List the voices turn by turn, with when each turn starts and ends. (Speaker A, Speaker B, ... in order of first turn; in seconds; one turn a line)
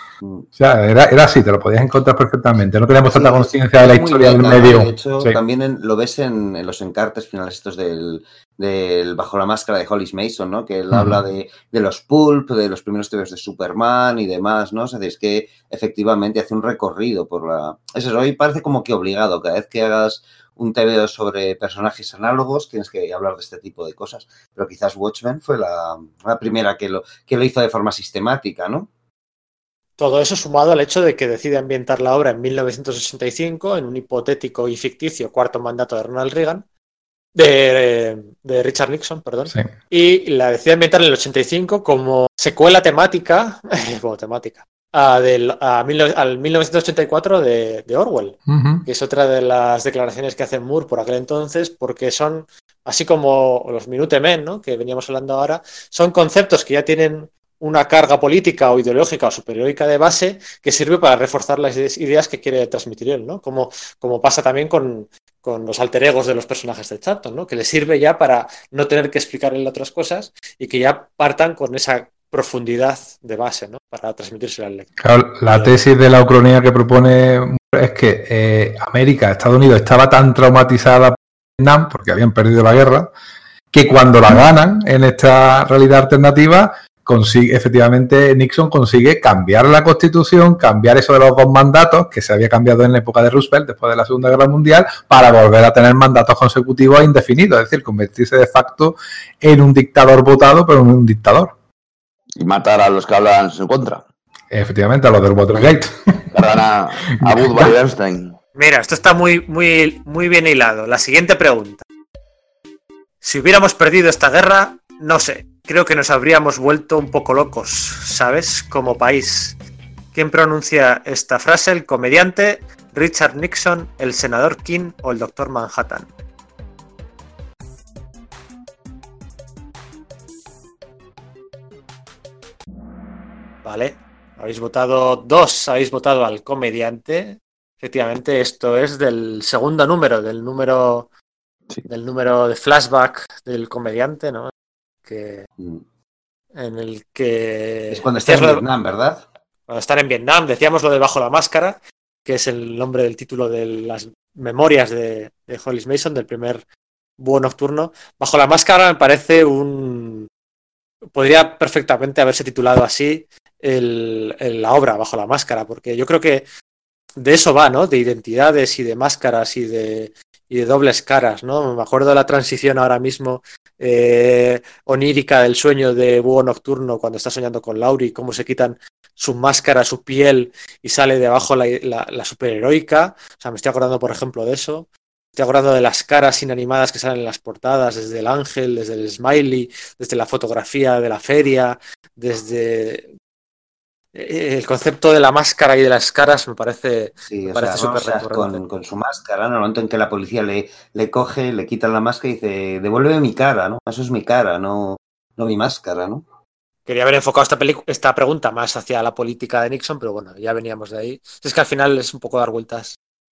Speaker A: 0.6-5.4
Speaker B: 3.1-28.9
Speaker C: 30.0-36.6
Speaker C: 37.3-74.9
Speaker A: 48.5-48.8
Speaker A: 75.0-83.1
Speaker C: 75.4-75.8
Speaker A: 83.7-101.5
Speaker D: 102.4-104.0
Speaker A: 104.5-106.4
Speaker D: 106.3-108.4
Speaker A: 107.1-107.7
Speaker C: 108.5-111.8
Speaker C: 113.2-119.6
Speaker C: 120.1-126.1
Speaker C: 133.6-141.1
Speaker C: 141.9-144.5
Speaker C: 145.1-145.5
Speaker C: 146.5-148.6
Speaker B: 147.9-149.2
Speaker C: 149.7-156.6
Speaker C: 157.2-160.3
Speaker C: 161.1-166.4
Speaker C: 167.2-193.1
Speaker C: 194.1-198.6
Speaker B: 197.3-206.2
Speaker C: 206.9-213.0